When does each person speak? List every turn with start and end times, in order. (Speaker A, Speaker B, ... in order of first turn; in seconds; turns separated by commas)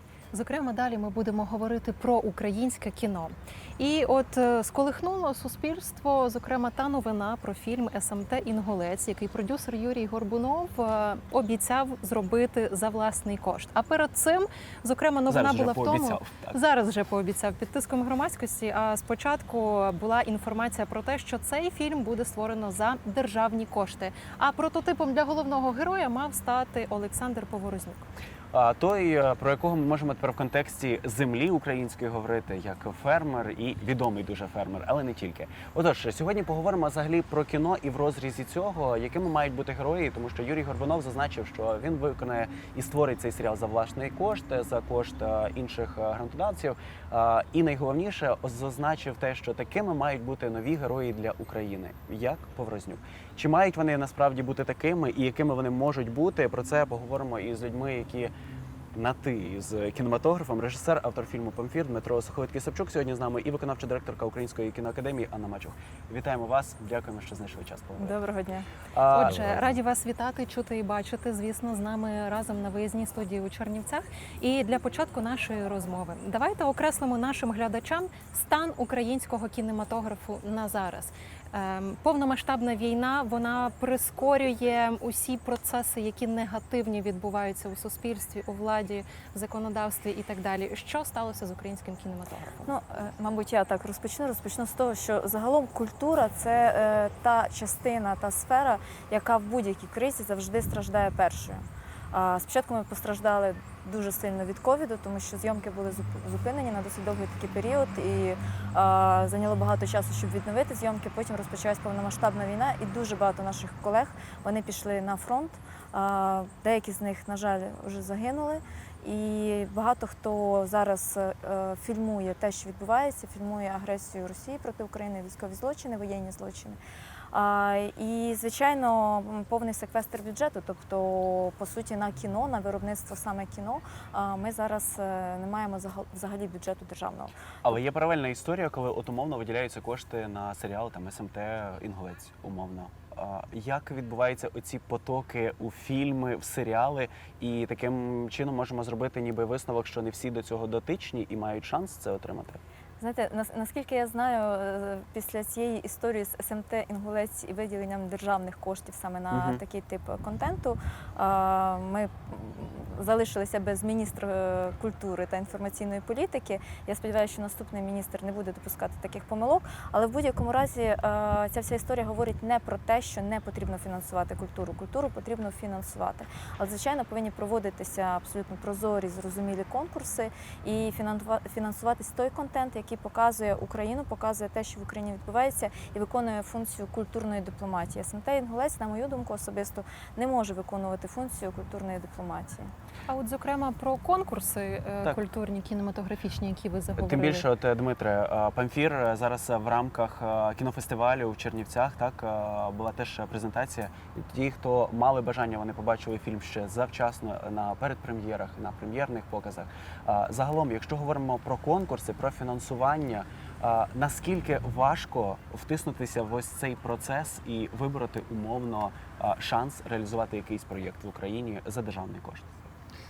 Speaker A: 0.3-28.1, Speaker B: 15.3-16.6, Speaker B: 28.5-58.3, Speaker B: 58.9-68.2, Speaker C: 68.0-68.7, Speaker B: 68.9-69.6, Speaker A: 69.1-92.7, Speaker C: 92.7-126.8, Speaker C: 127.3-137.3, Speaker B: 137.6-152.6, Speaker C: 153.0-192.7, Speaker B: 159.3-159.6, Speaker A: 193.1-197.5, Speaker B: 197.0-222.5